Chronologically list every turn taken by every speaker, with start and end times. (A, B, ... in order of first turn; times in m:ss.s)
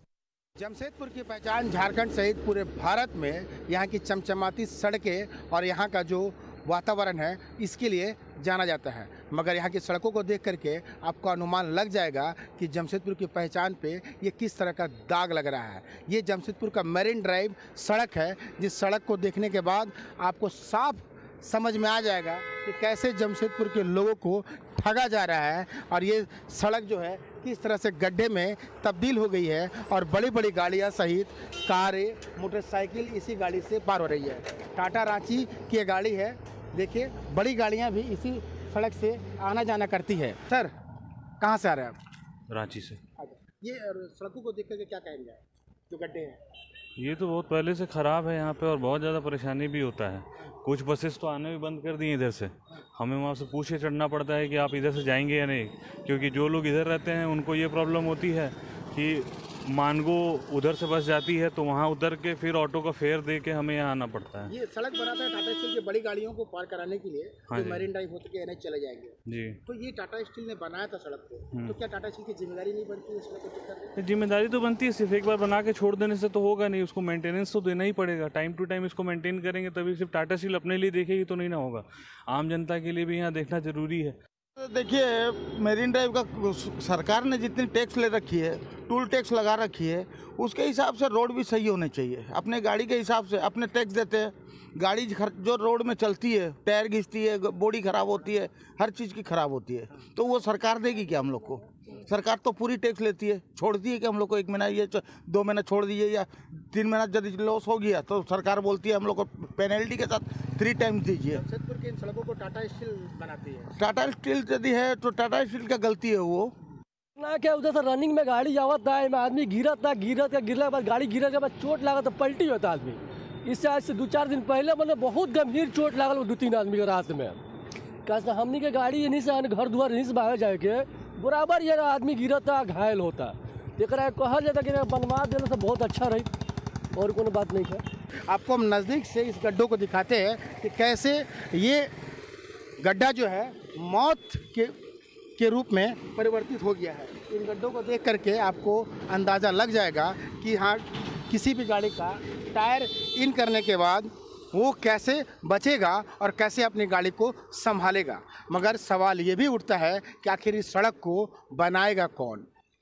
0:00.6-0:40.7 A
0:41.4-0:42.0 A
0:42.5-0:43.0 B
0:43.2-0:46.4 A
0:47.0-1:04.5 B
1:04.5-1:13.9 A
1:07.5-1:07.9 B
1:09.3-1:09.6 B
1:14.0-1:24.2 B
1:24.6-1:51.4 C
1:51.3-1:53.7 A
1:53.8-1:56.5 C
1:57.2-2:07.4 D
2:08.0-2:16.3 D
2:16.9-2:17.8 D
2:18.3-2:21.9 A
2:22.8-2:24.7 A
2:25.4-2:42.4 A